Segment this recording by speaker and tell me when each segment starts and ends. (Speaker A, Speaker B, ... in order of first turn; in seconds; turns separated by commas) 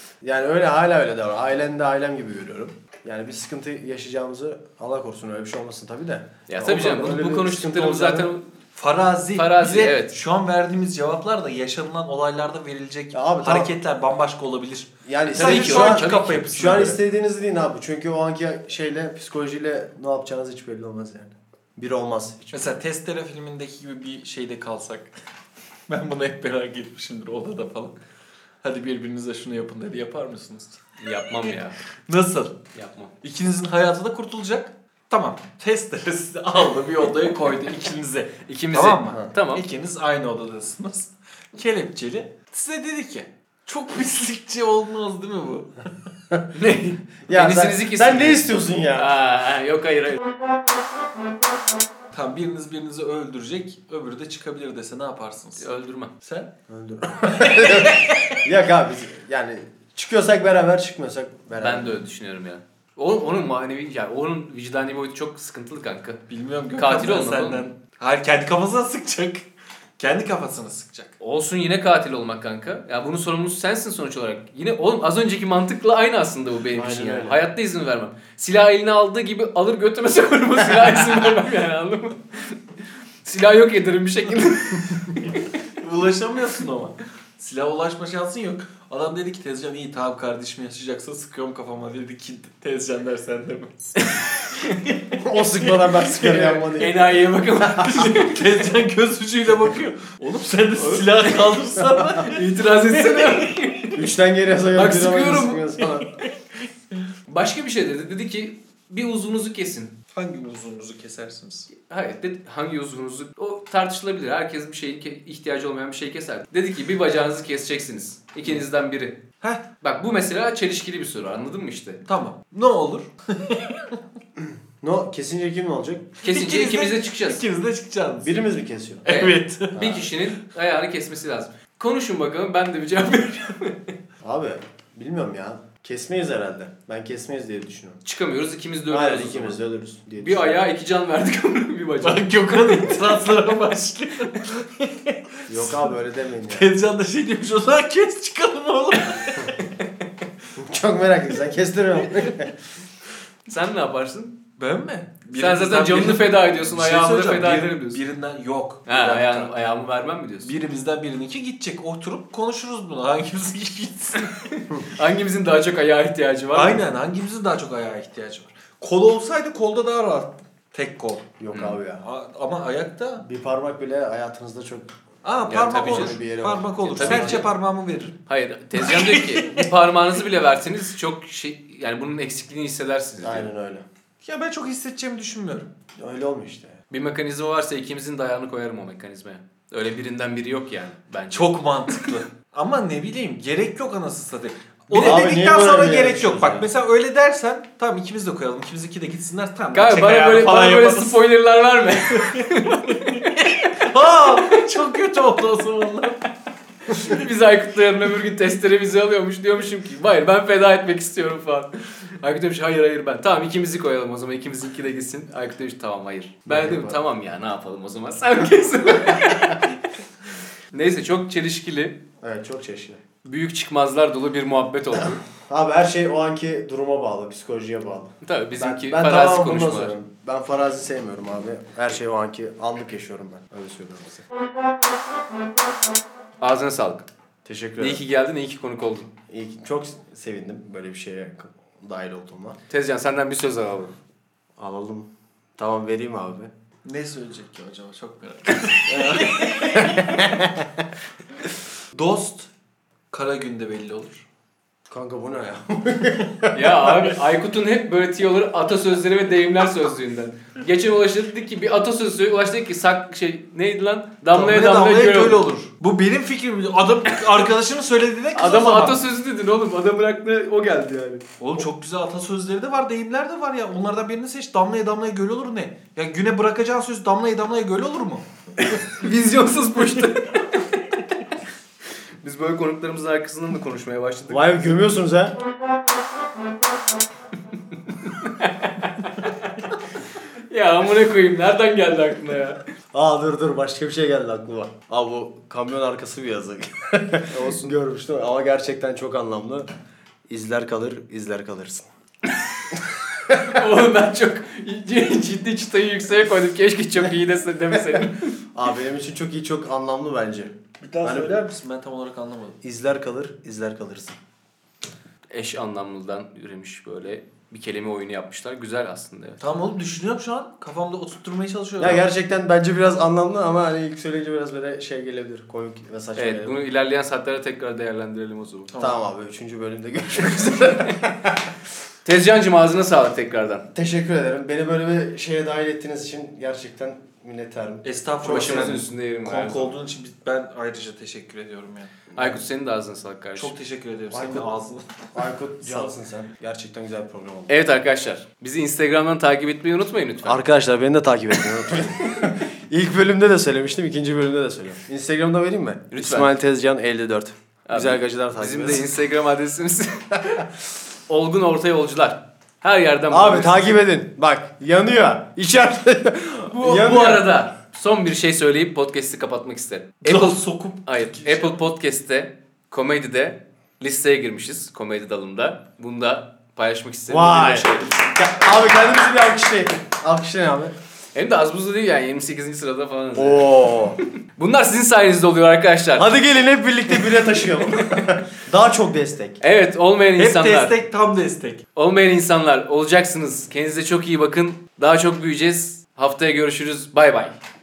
Speaker A: 0.2-8.3, Speaker B: 6.5-8.5, Speaker C: 8.7-17.0, Speaker B: 9.3-10.1, Speaker A: 13.1-13.7, Speaker A: 15.1-22.8, Speaker B: 15.3-16.5, Speaker C: 22.5-25.1, Speaker C: 25.9-27.9, Speaker C: 28.6-30.8, Speaker B: 31.0-31.8, Speaker C: 32.1-32.6, Speaker B: 32.7-33.1, Speaker C: 33.2-45.9, Speaker B: 38.5-39.6, Speaker B: 46.5-50.2, Speaker A: 47.3-49.1, Speaker C: 52.1-55.7, Speaker B: 55.6-56.1, Speaker C: 56.2-56.5, Speaker A: 56.7-62.0, Speaker C: 57.5-58.4, Speaker B: 61.6-66.2, Speaker C: 66.3-69.5, Speaker B: 66.8-67.6, Speaker C: 70.0-71.2, Speaker B: 71.2-82.6, Speaker A: 76.7-77.4, Speaker B: 83.2-85.4, Speaker C: 85.8-96.6, Speaker A: 95.2-97.1, Speaker B: 96.7-98.5, Speaker C: 97.8-103.4, Speaker B: 100.8-101.0, Speaker B: 102.2-104.0, Speaker A: 103.9-106.1, Speaker B: 104.7-105.7, Speaker B: 107.3-109.9, Speaker C: 110.1-111.7, Speaker B: 111.7-119.2, Speaker B: 119.8-122.0, Speaker C: 122.0-124.0, Speaker A: 124.8-126.1, Speaker B: 126.2-127.4, Speaker C: 126.2-128.4, Speaker A: 128.2-129.1, Speaker C: 129.0-129.8, Speaker B: 129.1-133.9, Speaker A: 129.7-130.1, Speaker A: 134.2-138.0, Speaker B: 138.0-139.6, Speaker A: 138.9-140.6, Speaker B: 140.2-143.2, Speaker C: 142.0-145.8, Speaker A: 145.5-146.7, Speaker C: 146.5-149.6, Speaker A: 150.6-152.5, Speaker B: 153.5-154.4, Speaker C: 154.6-159.5, Speaker B: 155.3-158.0, Speaker B: 158.9-160.5, Speaker C: 160.4-164.3, Speaker B: 164.2-166.8, Speaker C: 166.5-171.3, Speaker A: 171.4-172.0, Speaker C: 172.0-173.2, Speaker A: 173.2-174.9, Speaker C: 175.2-178.2, Speaker B: 175.5-176.2, Speaker A: 175.7-177.5, Speaker B: 176.8-177.5, Speaker B: 178.3-183.5, Speaker C: 178.8-179.7, Speaker A: 183.2-183.8, Speaker C: 184.2-185.7, Speaker A: 186.0-186.8, Speaker B: 186.9-192.1, Speaker C: 191.3-201.2, Speaker B: 194.9-195.2, Speaker A: 194.9-196.7, Speaker B: 199.7-203.7, Speaker C: 202.1-206.2, Speaker B: 204.3-204.6, Speaker B: 206.9-219.8, Speaker A: 216.4-216.9, Speaker B: 220.7-222.0, Speaker A: 222.2-223.0, Speaker B: 223.2-225.2, Speaker A: 225.4-234.2, Speaker B: 228.2-229.9, Speaker B: 236.4-237.1, Speaker A: 237.4-238.0, Speaker B: 237.8-239.1, Speaker A: 239.3-242.6, Speaker B: 242.7-243.9, Speaker A: 244.6-246.5, Speaker C: 246.8-250.4, Speaker A: 248.9-250.7, Speaker C: 251.9-252.5, Speaker C: 253.1-254.2, Speaker A: 254.9-257.1, Speaker B: 256.5-265.4, Speaker C: 264.3-269.0, Speaker B: 268.3-271.2, Speaker C: 271.4-278.2, Speaker B: 278.6-281.0, Speaker B: 282.2-284.5, Speaker A: 284.3-285.4, Speaker B: 287.9-289.6, Speaker B: 290.5-292.6, Speaker A: 292.9-299.7, Speaker A: 300.3-301.9, Speaker B: 303.3-308.3, Speaker A: 308.5-311.4, Speaker C: 310.8-312.6, Speaker A: 312.6-314.2, Speaker B: 315.3-319.4, Speaker C: 319.4-322.0, Speaker A: 321.8-326.6, Speaker B: 326.1-328.7, Speaker C: 328.7-329.0, Speaker A: 328.8-331.5, Speaker B: 332.0-333.6, Speaker A: 333.7-338.8, Speaker C: 337.8-341.9, Speaker B: 338.2-339.7, Speaker A: 342.1-342.4, Speaker B: 342.2-343.5, Speaker C: 343.4-344.8, Speaker A: 344.1-344.5, Speaker A: 345.1-347.5, Speaker B: 347.5-350.4, Speaker A: 350.2-358.9, Speaker B: 355.9-356.3, Speaker B: 357.7-360.4, Speaker B: 361.1-363.8, Speaker A: 363.1-367.3, Speaker B: 366.5-378.0, Speaker C: 370.0-371.6, Speaker A: 377.1-380.7, Speaker B: 381.1-383.8, Speaker A: 383.1-384.0, Speaker B: 384.4-386.1, Speaker A: 386.0-389.4, Speaker B: 387.7-388.0, Speaker B: 389.4-390.8, Speaker C: 390.2-391.6, Speaker B: 391.8-397.3